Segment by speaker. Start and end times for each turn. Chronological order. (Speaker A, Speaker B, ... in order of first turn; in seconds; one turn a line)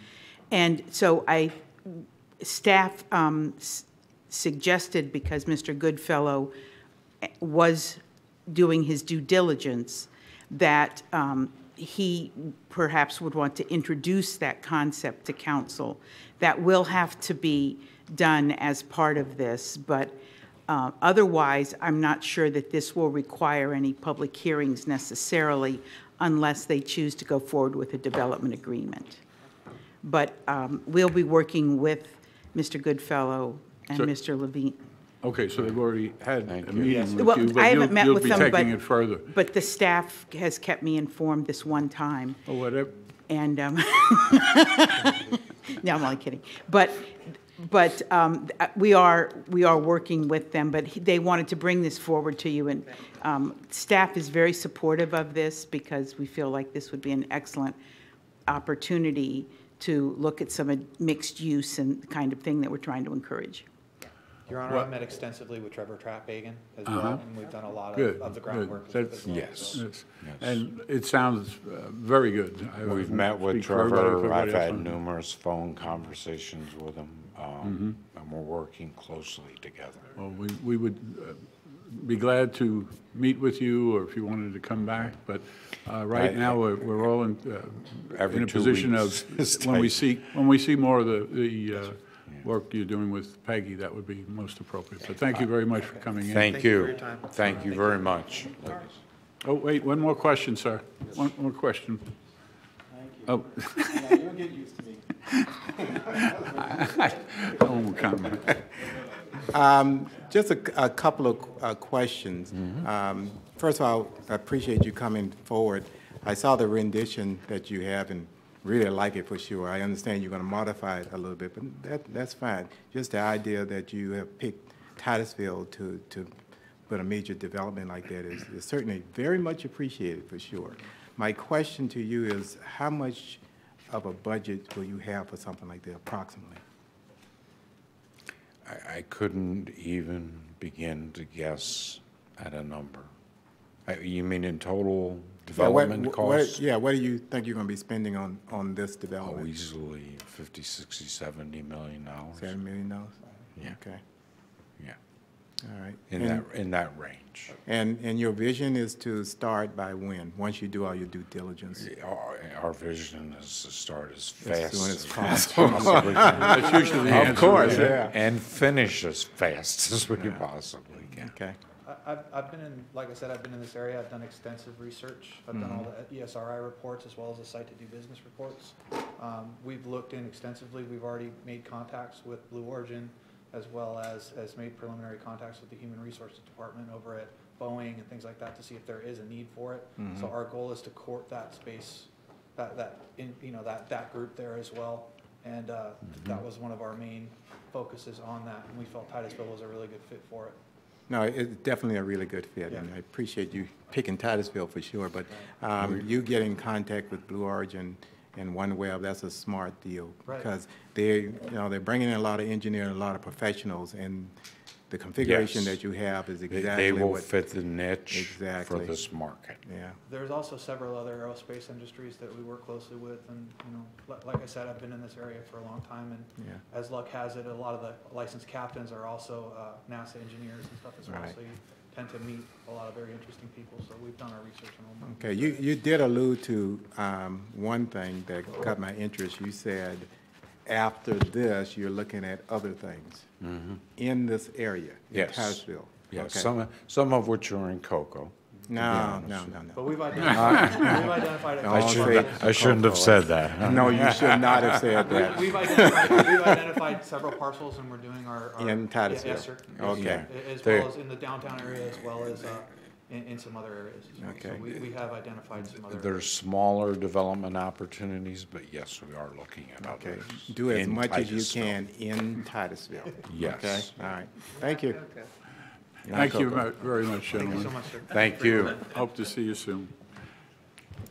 Speaker A: 0.5-6.5
Speaker A: 7.2-20.1
Speaker A: 20.7-29.2
Speaker A: 30.0-34.8
Speaker B: 35.2-39.3
Speaker C: 36.5-37.1
Speaker D: 36.9-37.4
Speaker A: 37.1-42.4
Speaker B: 42.5-42.9
Speaker A: 43.3-57.8
Speaker A: 58.5-63.7
Speaker D: 64.5-69.8
Speaker B: 66.9-67.2
Speaker B: 67.9-75.0
Speaker C: 69.3-70.6
Speaker C: 72.8-80.1
Speaker B: 77.6-78.0
Speaker B: 80.2-96.5
Speaker C: 86.1-86.6
Speaker C: 88.1-90.1
Speaker C: 96.2-99.0
Speaker D: 96.4-97.7
Speaker B: 99.4-102.1
Speaker E: 103.0-105.0
Speaker B: 103.3-104.2
Speaker E: 105.9-106.5
Speaker B: 106.0-108.6
Speaker E: 109.4-126.3
Speaker E: 126.9-136.6
Speaker C: 138.7-143.1
Speaker C: 143.9-146.6
Speaker E: 145.6-149.5
Speaker C: 149.2-152.5
Speaker E: 152.3-154.0
Speaker E: 155.6-156.5
Speaker C: 156.1-157.6
Speaker E: 157.6-161.9
Speaker C: 161.8-171.3
Speaker E: 164.4-168.2
Speaker D: 165.9-168.1
Speaker B: 166.4-168.1
Speaker E: 170.2-170.4
Speaker E: 171.1-171.6
Speaker D: 171.8-200.6
Speaker E: 175.5-175.9
Speaker E: 190.0-190.3
Speaker E: 201.1-214.3
Speaker E: 214.9-217.3
Speaker C: 215.2-215.8
Speaker C: 216.5-219.6
Speaker E: 218.1-219.0
Speaker E: 219.7-220.0
Speaker D: 220.1-235.7
Speaker E: 231.1-231.4
Speaker E: 235.0-240.1
Speaker E: 240.7-243.3
Speaker C: 243.4-243.8
Speaker E: 244.0-246.5
Speaker C: 245.1-255.3
Speaker E: 248.7-250.6
Speaker D: 249.8-252.6
Speaker E: 251.6-256.7
Speaker D: 255.0-266.2
Speaker E: 258.6-260.3
Speaker C: 259.8-260.9
Speaker E: 264.2-264.7
Speaker C: 265.9-271.8
Speaker E: 269.8-275.1
Speaker C: 273.3-273.9
Speaker E: 276.1-276.7
Speaker B: 276.1-277.8
Speaker D: 277.3-279.0
Speaker C: 278.1-278.9
Speaker B: 278.9-279.9